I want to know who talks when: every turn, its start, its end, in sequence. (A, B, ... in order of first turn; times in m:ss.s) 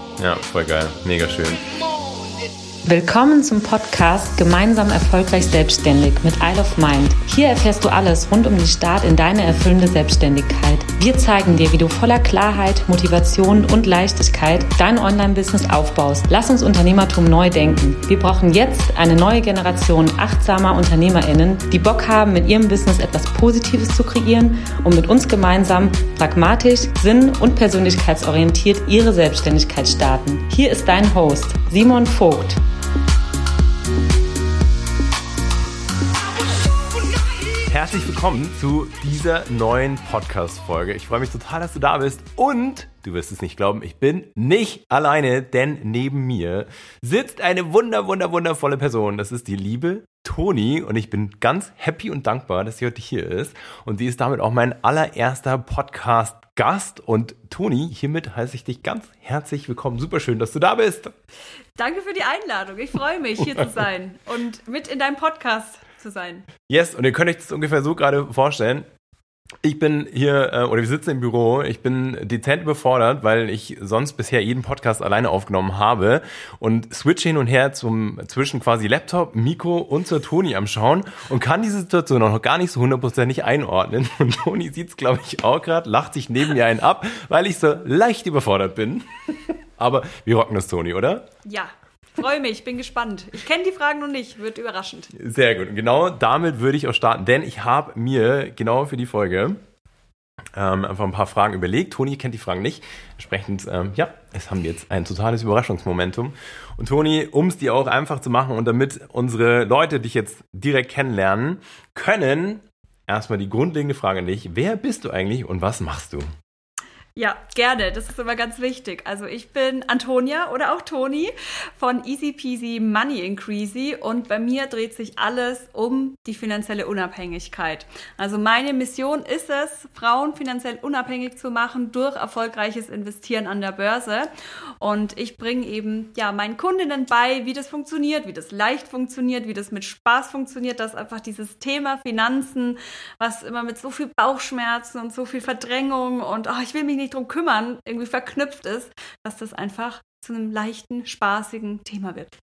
0:00.2-0:01.6 A
0:02.8-0:32.6 B
0:37.6-1:01.1 A
1:01.8-1:06.5 C
1:06.7-1:08.9 A
1:09.6-1:31.3 A
1:31.4-1:35.1 C
1:35.1-1:39.6 A
1:40.5-1:56.3 A
1:57.2-2:14.3 C
2:14.8-2:32.4 C